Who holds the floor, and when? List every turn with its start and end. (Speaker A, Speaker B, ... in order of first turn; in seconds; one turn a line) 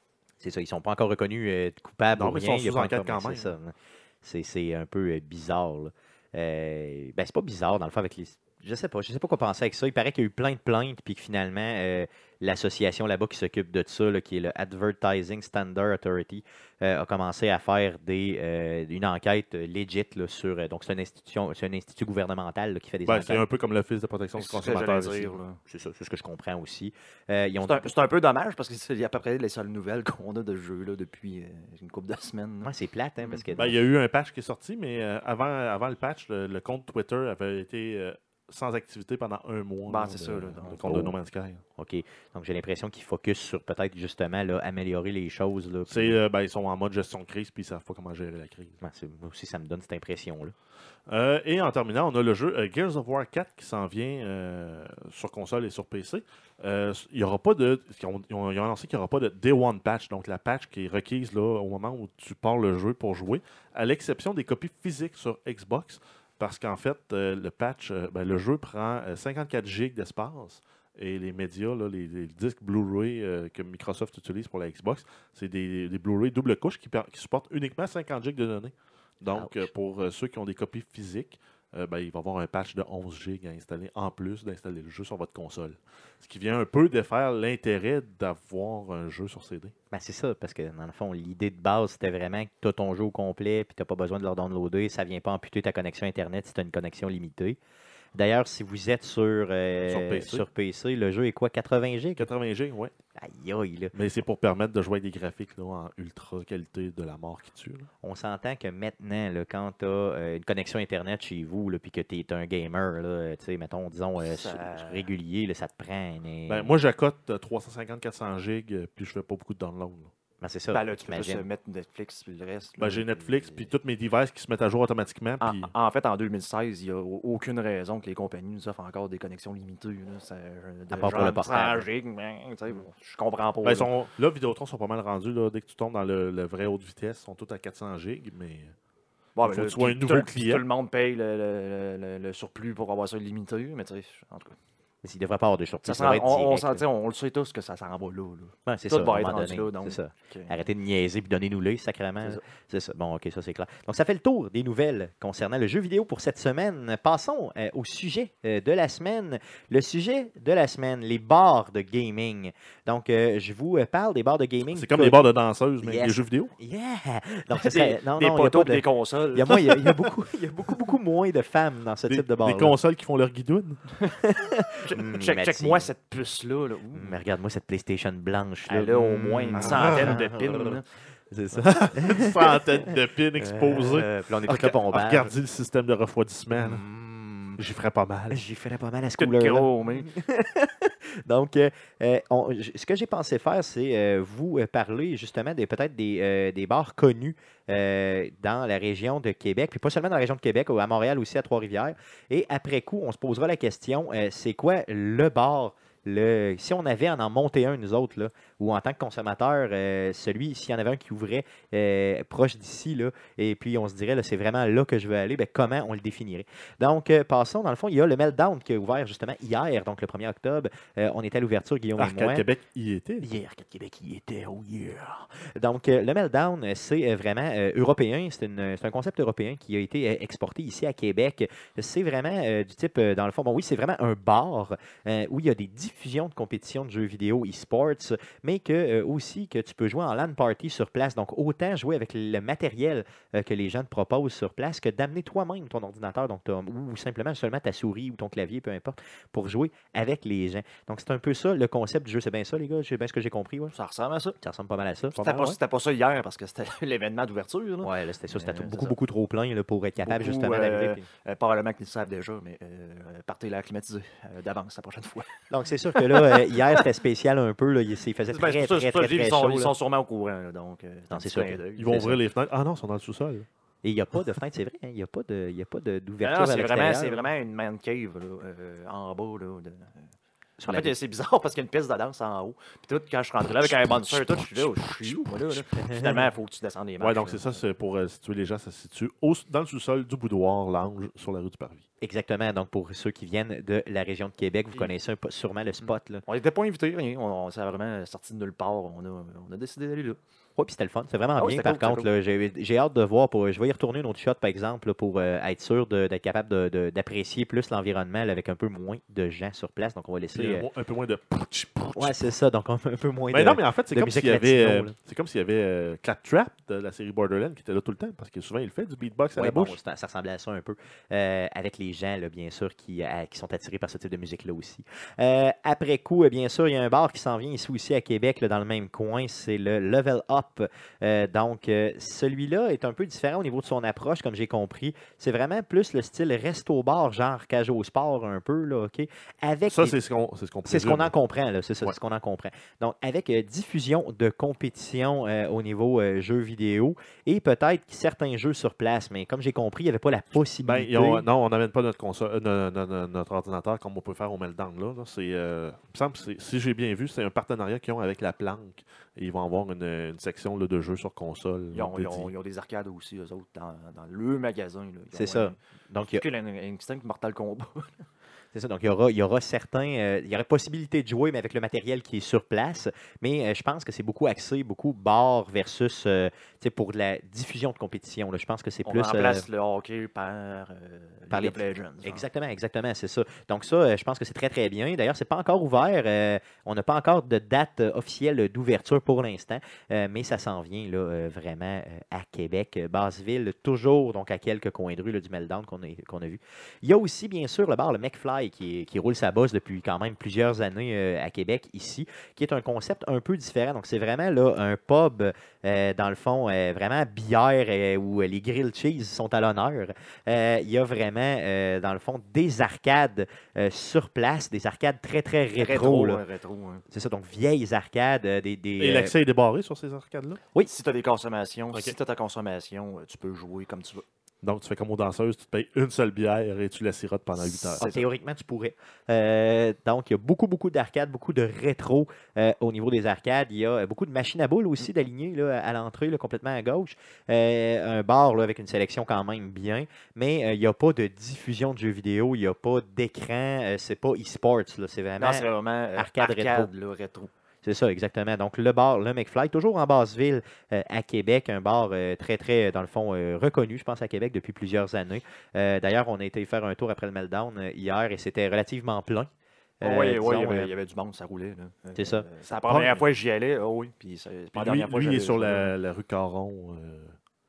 Speaker A: 0.4-23.4
Speaker B: 2.1-3.5
Speaker B: 23.1-25.3
Speaker C: 24.4-25.6
Speaker A: 25.7-27.9
Speaker C: 27.6-33.6
Speaker A: 32.6-33.7
Speaker B: 33.5-41.6
Speaker C: 39.9-41.1
Speaker A: 41.8-46.2
Speaker B: 45.9-48.8
Speaker A: 48.8-50.5
Speaker B: 51.1-89.7
Speaker A: 79.3-79.7
Speaker A: 89.9-97.6
Speaker A: 98.1-102.3
Speaker B: 99.9-100.5
Speaker B: 102.2-102.9
Speaker A: 103.2-103.9
Speaker B: 103.9-107.9
Speaker A: 108.0-116.7
Speaker C: 114.2-115.1
Speaker B: 116.5-120.1
Speaker A: 120.4-121.5
Speaker C: 120.7-123.7
Speaker B: 122.8-125.7
Speaker C: 125.4-133.9
Speaker A: 130.9-131.9
Speaker B: 133.6-138.7
Speaker C: 139.4-144.6
Speaker B: 139.4-140.6
Speaker A: 145.0-146.8
Speaker C: 145.9-150.6
Speaker A: 148.7-165.2
Speaker B: 164.7-166.5
Speaker A: 165.8-172.7
Speaker C: 167.6-170.1
Speaker B: 172.1-173.9
Speaker A: 174.2-175.9
Speaker C: 174.8-177.2
Speaker A: 176.9-180.8
Speaker C: 178.7-180.9
Speaker B: 179.6-180.2
Speaker A: 181.3-182.8
Speaker B: 181.5-186.8
Speaker A: 183.4-185.3
Speaker A: 186.6-187.6
Speaker B: 187.6-188.4
Speaker A: 188.3-222.5
Speaker C: 189.2-190.1
Speaker B: 222.0-223.2
Speaker A: 223.2-253.7
Speaker C: 253.7-254.4
Speaker A: 254.4-255.5
Speaker C: 255.2-258.9
Speaker A: 257.8-261.0
Speaker C: 260.0-266.8
Speaker A: 265.5-269.7
Speaker C: 268.3-272.0
Speaker A: 271.1-272.2
Speaker B: 271.8-273.5
Speaker A: 273.8-277.2
Speaker C: 276.2-280.1
Speaker A: 280.6-280.9
Speaker C: 280.7-287.6
Speaker B: 283.8-285.2
Speaker A: 285.8-286.1
Speaker B: 287.0-291.8
Speaker A: 292.0-296.2
Speaker C: 296.2-300.2
Speaker A: 300.6-310.6
Speaker C: 301.4-302.1
Speaker B: 310.3-312.2
Speaker A: 311.9-314.9
Speaker B: 313.3-319.8
Speaker A: 319.4-339.9
Speaker B: 339.7-341.1
Speaker A: 340.6-351.2
Speaker B: 350.6-362.3
Speaker C: 361.7-365.6
Speaker A: 365.1-366.2
Speaker C: 366.1-368.1
Speaker A: 368.5-379.4
Speaker C: 378.9-382.2
Speaker A: 381.3-416.2
Speaker C: 415.6-416.8
Speaker A: 416.9-419.1
Speaker B: 418.8-420.4
Speaker C: 420.6-424.0
Speaker B: 424.4-427.9
Speaker C: 427.4-428.1
Speaker A: 427.8-446.7
Speaker C: 445.2-447.3
Speaker A: 447.6-459.3
Speaker A: 459.8-460.7
Speaker C: 459.8-465.7
Speaker A: 461.9-462.2
Speaker B: 462.7-463.0
Speaker B: 464.6-467.1